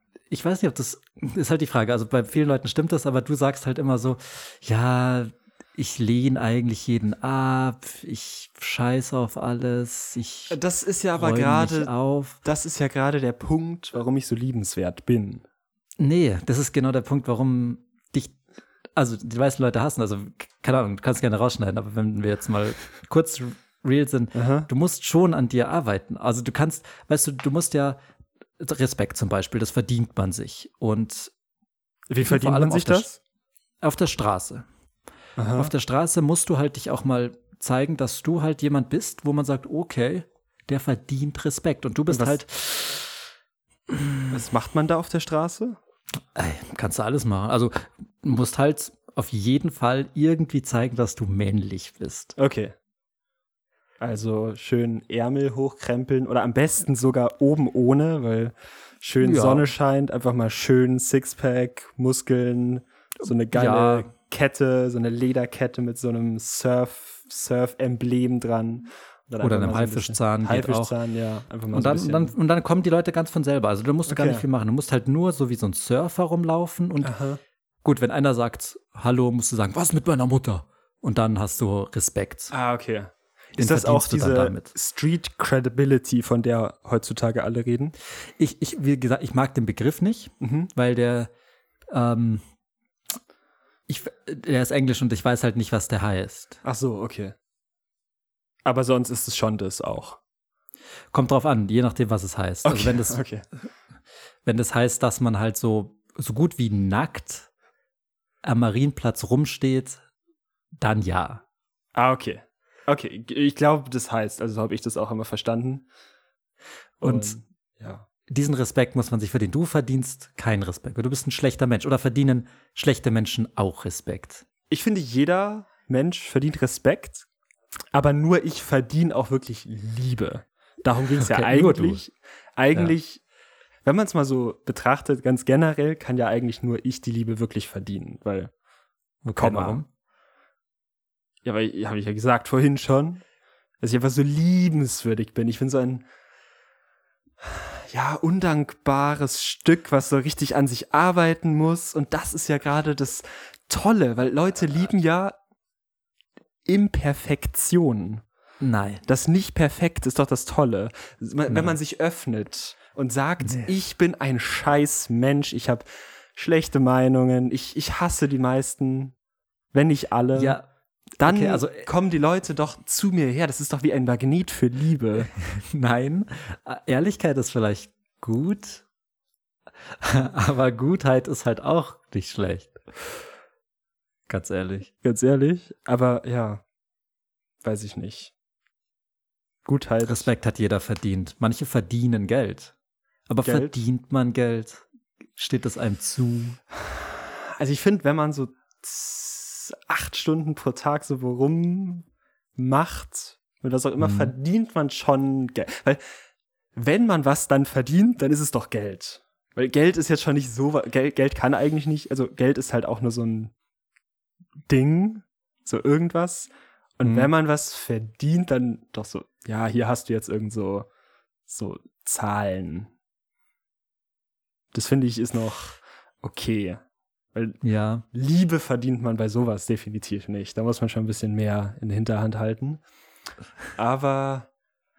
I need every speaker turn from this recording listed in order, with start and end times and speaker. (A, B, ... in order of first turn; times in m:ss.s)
0:00.3-0:10.6 A
0:10.5-0:15.4 B
0:11.2-0:12.4 A
0:16.0-0:18.4 A
0:19.0-0:28.0 A
0:24.3-0:24.7 B
0:28.6-0:31.3 A
0:32.1-0:33.2 B
0:32.2-0:33.1 A
0:33.8-0:34.7 A
0:35.4-0:35.7 B
0:35.6-0:43.1 A
0:42.1-0:42.4 B
0:43.9-0:44.3 A
0:44.3-0:45.8 B
0:46.4-0:52.4 A
0:52.4-0:52.8 B
0:54.0-1:12.4 B
0:59.2-0:59.7 A
1:03.2-1:04.1 A
1:09.4-1:11.0 A
1:11.7-1:17.2 A
1:14.1-1:14.4 B
1:17.0-1:17.4 B
1:17.8-1:22.5 A
1:22.5-1:28.0 B
1:23.6-1:24.7 A
1:28.4-1:31.3 A
1:30.4-1:30.7 B
1:31.9-1:32.4 A
1:33.9-1:36.6 A
1:36.6-1:37.4 B
1:38.6-1:40.2 B
1:41.1-1:43.2 A
1:42.6-1:43.4 B
1:44.4-1:47.5 A
1:48.4-1:50.0 A
1:50.8-1:51.4 A
1:52.0-1:55.9 B
1:57.0-1:58.1 B
1:57.0-1:57.4 A
1:58.3-2:04.4 A
2:04.7-2:07.3 B
2:07.9-2:13.2 B
2:11.2-2:12.0 A
2:13.8-2:18.5 B
2:19.2-2:19.9 A
2:19.4-2:19.8 B
2:21.4-2:23.2 B
2:23.8-2:26.0 B
2:27.4-2:35.4 B
2:36.7-2:38.2 B
2:38.6-2:39.0 A
2:39.1-2:49.2 B
2:41.5-2:41.8 A
2:43.4-2:43.7 A
2:49.7-2:50.6 B
2:50.4-2:50.7 A
2:51.2-2:51.9 A
2:51.2-2:55.3 B
2:55.3-2:58.8 A
3:00.0-3:02.8 A
3:04.3-3:04.9 A
3:05.0-3:06.6 B
3:07.6-3:08.3 B
3:09.6-3:10.3 B
3:10.0-3:12.7 A
3:13.3-3:14.8 A
3:13.4-3:13.8 B
3:15.4-3:16.6 A
3:17.6-3:26.1 B
3:24.0-3:24.3 A
3:26.8-3:33.5 B
3:34.7-3:40.9 B
3:37.0-3:37.3 A
3:41.5-3:42.9 B
3:44.7-3:52.8 B
3:47.6-3:48.0 A
3:53.8-3:54.5 B